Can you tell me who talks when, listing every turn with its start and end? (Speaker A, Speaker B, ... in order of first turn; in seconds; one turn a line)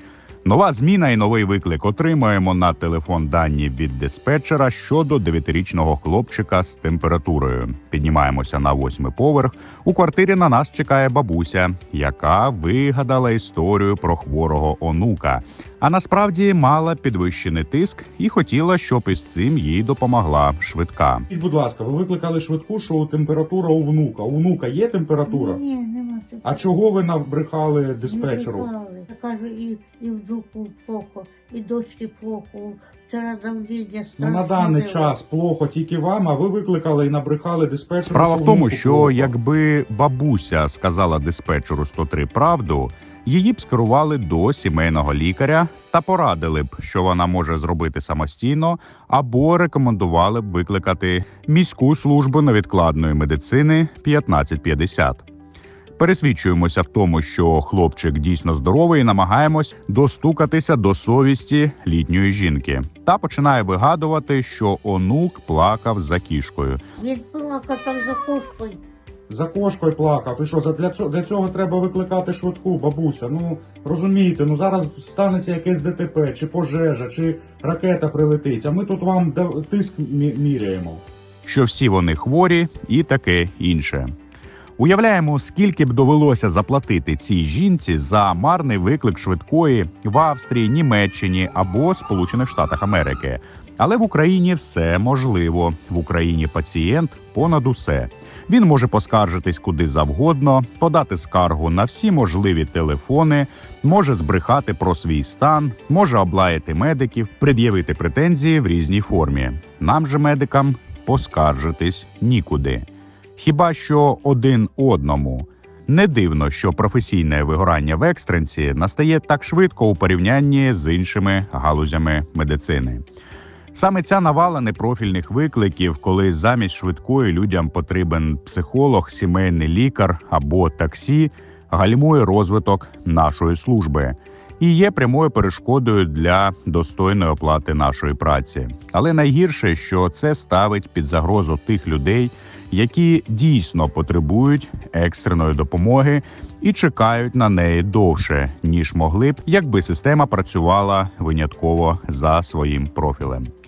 Speaker A: 0.5-21.3
Speaker B: 21.3-25.6
Speaker C: 25.3-26.7
Speaker B: 26.4-28.7
Speaker C: 28.1-35.1
Speaker B: 34.2-39.3
Speaker A: 38.0-55.2
Speaker A: 56.0-66.8
Speaker C: 67.0-68.8
Speaker B: 69.3-81.0
Speaker A: 81.4-84.1
Speaker A: 84.8-112.8
Speaker A: 113.4-123.0
Speaker A: 123.7-153.5